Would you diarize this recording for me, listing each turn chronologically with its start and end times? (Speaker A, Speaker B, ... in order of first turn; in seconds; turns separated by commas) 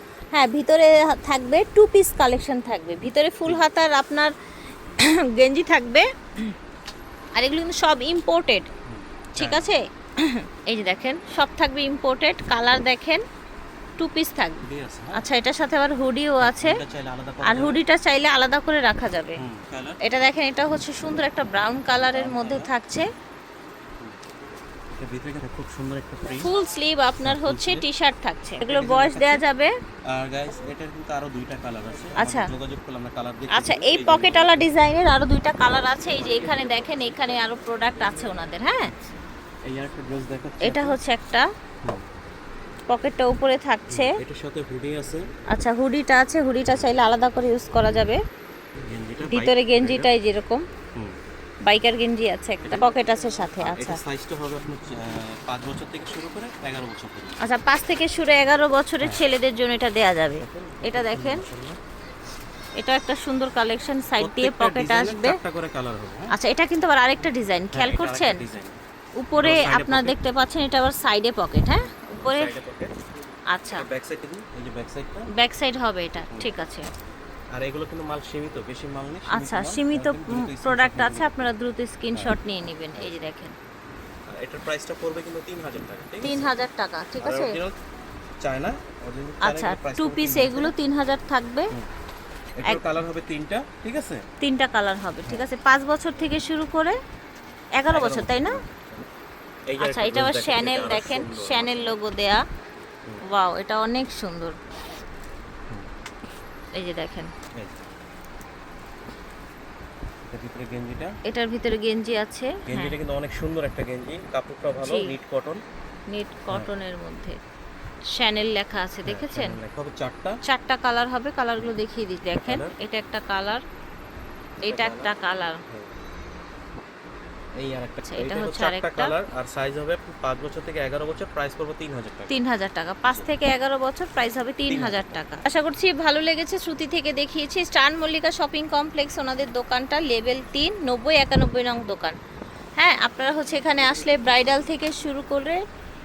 Speaker A: 0.3-4.3, Speaker A: 5.0-6.6, Speaker A: 7.4-8.7, Speaker B: 8.8-9.7, Speaker A: 9.4-13.2, Speaker A: 14.0-14.6, Speaker B: 14.6-15.3, Speaker A: 15.1-16.8, Speaker B: 16.4-17.8, Speaker A: 17.4-19.4, Speaker B: 19.4-20.0, Speaker A: 20.0-23.1, Speaker B: 22.1-22.7, Speaker B: 24.9-26.5, Speaker A: 26.4-29.7, Speaker B: 27.2-27.9, Speaker B: 28.6-29.4, Speaker B: 30.1-34.7, Speaker A: 32.2-32.5, Speaker A: 33.5-38.9, Speaker B: 36.1-37.2, Speaker B: 38.8-41.0, Speaker A: 40.6-41.5, Speaker A: 42.9-44.1, Speaker B: 43.9-45.2, Speaker A: 45.5-48.2, Speaker B: 48.9-50.1, Speaker A: 49.2-50.6, Speaker A: 51.7-54.0, Speaker B: 52.6-53.0, Speaker B: 53.6-57.4, Speaker A: 57.4-61.5, Speaker B: 59.0-59.3, Speaker B: 60.4-61.8, Speaker A: 62.8-65.4, Speaker B: 64.2-66.3, Speaker A: 66.3-68.4, Speaker B: 67.7-68.8, Speaker A: 69.2-72.6, Speaker B: 69.4-70.2, Speaker B: 72.2-72.9, Speaker A: 73.5-73.9, Speaker B: 73.7-75.3, Speaker A: 75.3-76.8, Speaker B: 77.5-81.5, Speaker A: 79.3-83.5, Speaker B: 83.0-83.2, Speaker B: 84.3-86.5, Speaker A: 86.2-87.6, Speaker B: 87.2-87.8, Speaker B: 88.4-90.7, Speaker A: 89.4-91.7, Speaker B: 92.6-94.2, Speaker A: 94.4-97.0, Speaker A: 97.8-98.6, Speaker B: 97.9-99.1, Speaker B: 99.7-102.0, Speaker A: 99.8-102.4, Speaker A: 103.3-104.6, Speaker A: 106.7-107.3, Speaker B: 110.3-111.1, Speaker A: 111.3-113.0, Speaker B: 112.7-115.6, Speaker A: 114.8-115.1, Speaker A: 116.1-117.4, Speaker A: 118.1-119.6, Speaker B: 119.1-120.4, Speaker A: 120.5-123.6, Speaker B: 122.4-122.7, Speaker B: 124.6-125.1, Speaker A: 124.7-125.6, Speaker B: 127.6-132.3, Speaker A: 128.1-129.1, Speaker A: 132.3-142.2, Speaker B: 133.1-133.3, Speaker B: 134.7-135.2, Speaker A: 142.8-145.6